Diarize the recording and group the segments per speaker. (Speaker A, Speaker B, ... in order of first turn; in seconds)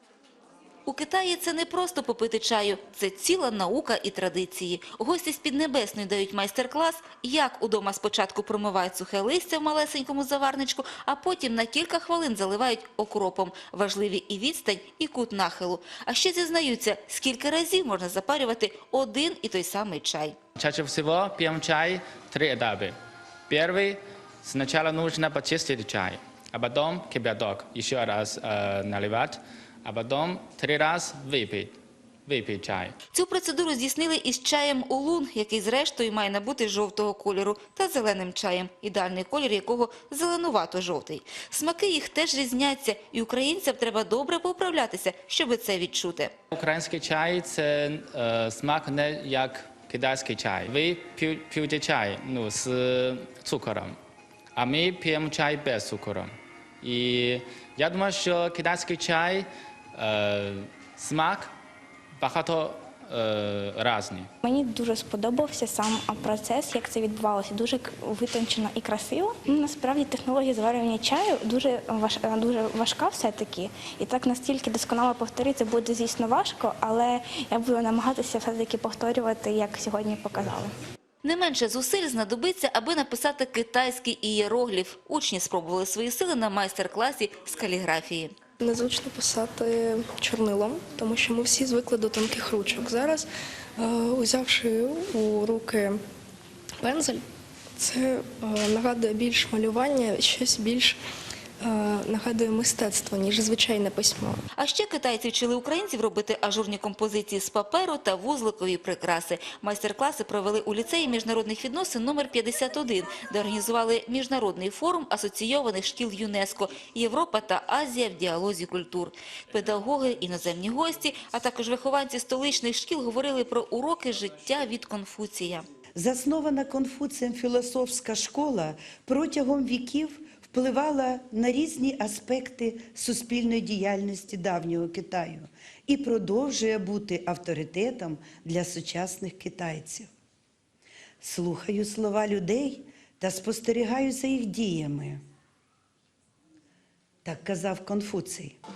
Speaker A: 0.8-20.4, 33.1-46.3, 81.2-88.3, 104.5-125.7
Speaker B: 20.6-22.9, 23.5-32.9, 46.5-54.0, 54.5-61.5, 62.2-64.3
Speaker C: 64.4-80.7
Speaker D: 88.6-96.0, 96.8-97.2, 97.8-101.0, 101.6-104.4
Speaker E: 126.0-140.1, 141.2-145.2, 147.2-148.6